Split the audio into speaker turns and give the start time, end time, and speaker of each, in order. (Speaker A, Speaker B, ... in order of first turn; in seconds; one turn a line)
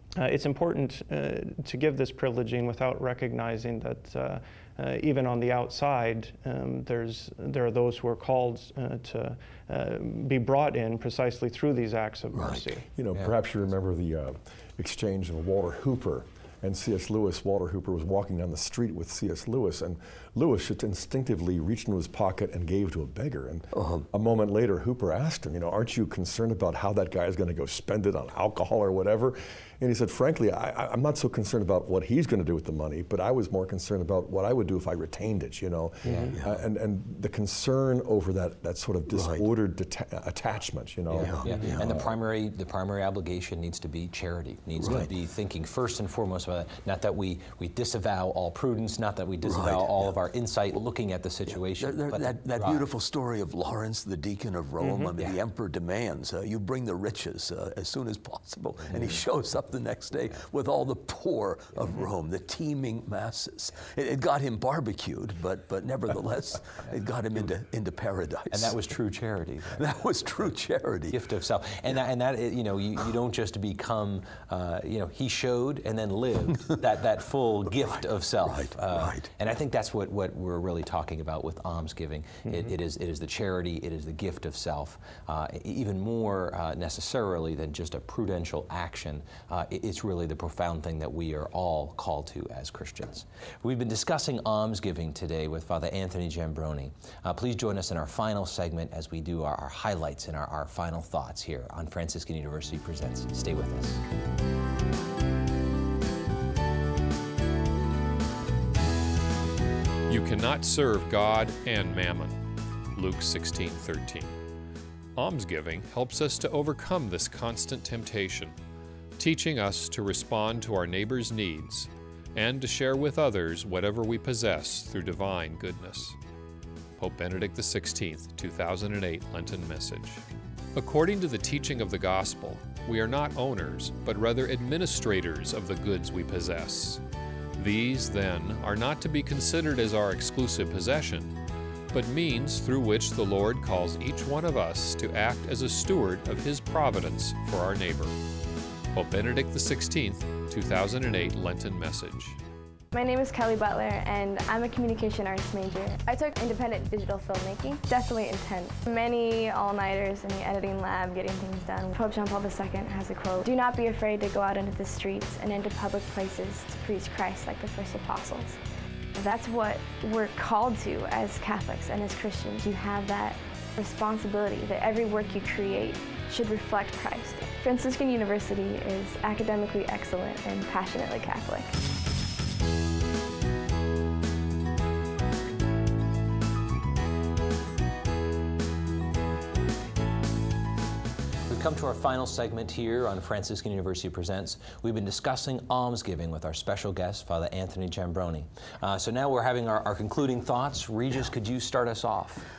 Speaker A: 0.1-12.9
Speaker B: 12.3-12.7
Speaker C: 13.0-42.1
Speaker B: 23.7-24.1
Speaker A: 36.0-36.3
Speaker D: 36.0-36.4
Speaker B: 39.1-39.5
Speaker D: 41.1-52.9
Speaker B: 41.2-41.9
Speaker B: 44.8-45.1
Speaker B: 49.4-50.1
Speaker B: 51.8-68.8
Speaker A: 54.8-55.1
Speaker D: 58.9-59.2
Speaker D: 68.5-69.9
Speaker B: 69.7-71.2
Speaker D: 71.1-104.0
Speaker B: 77.8-79.3
Speaker E: 110.1-112.4
Speaker E: 112.9-114.4
Speaker E: 115.2-118.5
Speaker E: 119.2-126.2
Speaker E: 127.0-130.2
Speaker E: 130.8-137.0
Speaker E: 137.6-141.3
Speaker E: 141.9-148.1
Speaker E: 148.9-152.4
Speaker F: 152.9-168.6
Speaker F: 169.2-181.7
Speaker D: 191.5-202.5